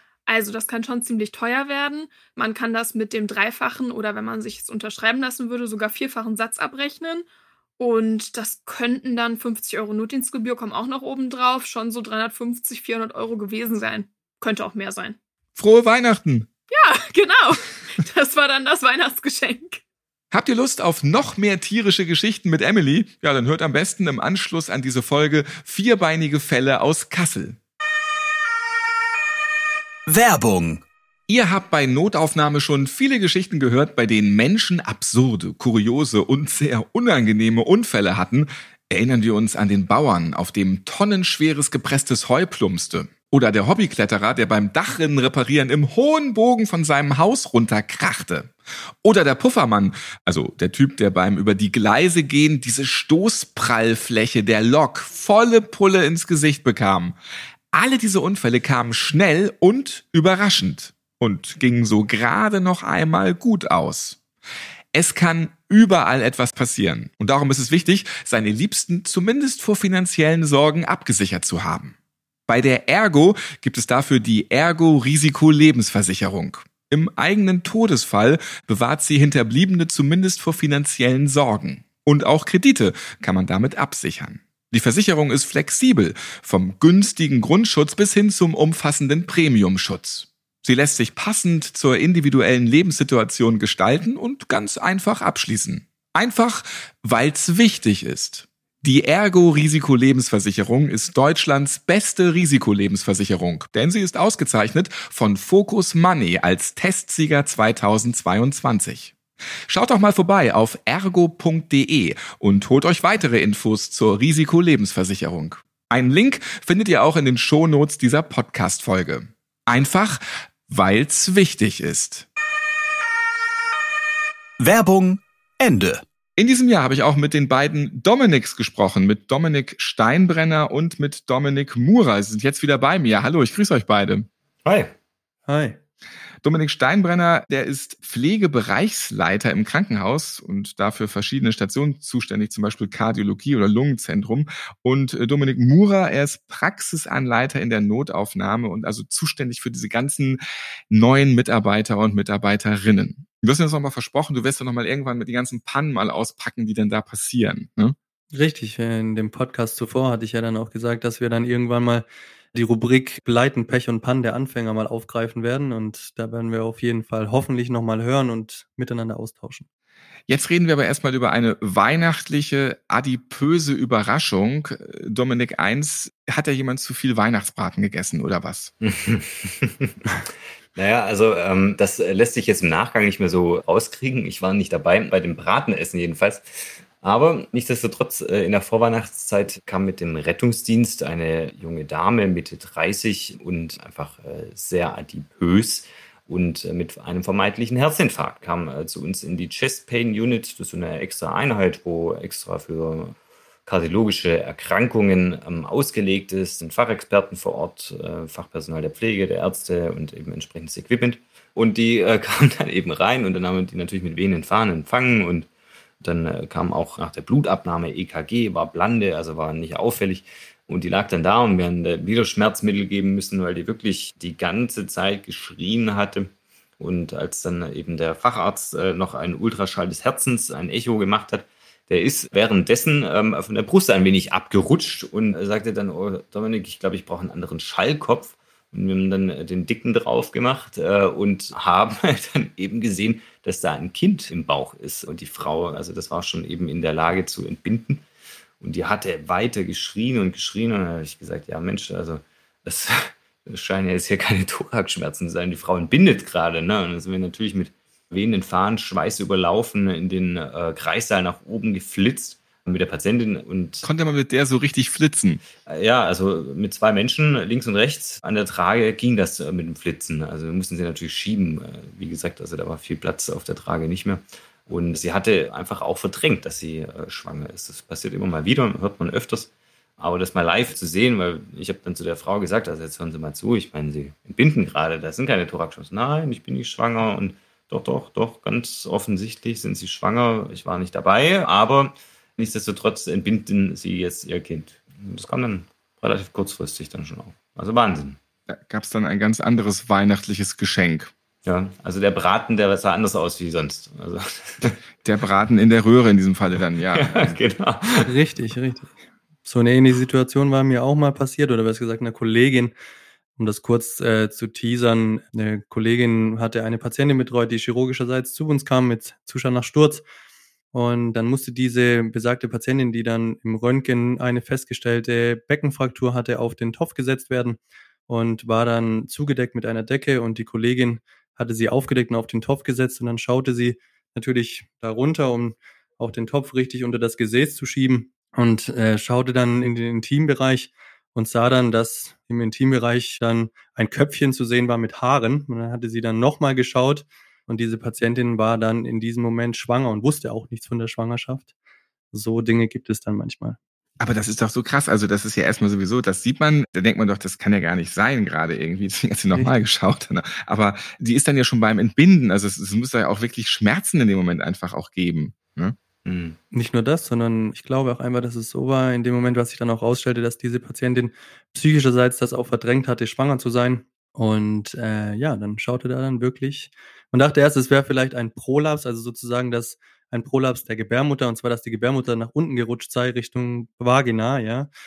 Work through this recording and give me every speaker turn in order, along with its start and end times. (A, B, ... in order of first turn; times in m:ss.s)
0:00.3-0:07.2 A
0:07.8-0:15.2 A
0:15.6-0:16.5 B
0:16.7-0:19.8 A
0:20.3-0:27.6 B
0:30.1-0:30.8 C
0:31.3-0:48.5 B
0:49.0-0:57.2 B
0:57.7-1:04.2 B
1:04.9-1:11.9 B
1:12.5-1:49.1 B
1:49.7-2:02.2 B
2:04.6-2:06.0 C
2:06.4-2:14.3 B
2:14.6-2:14.9 D
2:15.5-2:15.8 E
2:16.4-2:30.4 B
2:30.9-2:38.0 B
2:38.3-2:49.6 E
2:50.3-2:58.7 B
2:58.8-2:59.9 D
3:00.7-3:23.2 D
3:23.7-3:35.5 D
3:36.0-4:08.0 D
4:08.6-4:23.9 D
4:23.8-4:25.4 B
4:25.6-4:58.2 D
4:58.5-5:01.1 B
5:01.4-5:04.8 D
5:05.0-5:07.4 B
5:06.9-5:08.0 D
5:08.1-5:08.9 E
5:09.4-5:12.7 E
5:13.4-5:20.0 E
5:20.7-5:51.5 E
5:52.1-5:53.6 E
5:54.0-6:05.7 B
6:06.0-6:06.4 D
6:06.5-6:24.7 E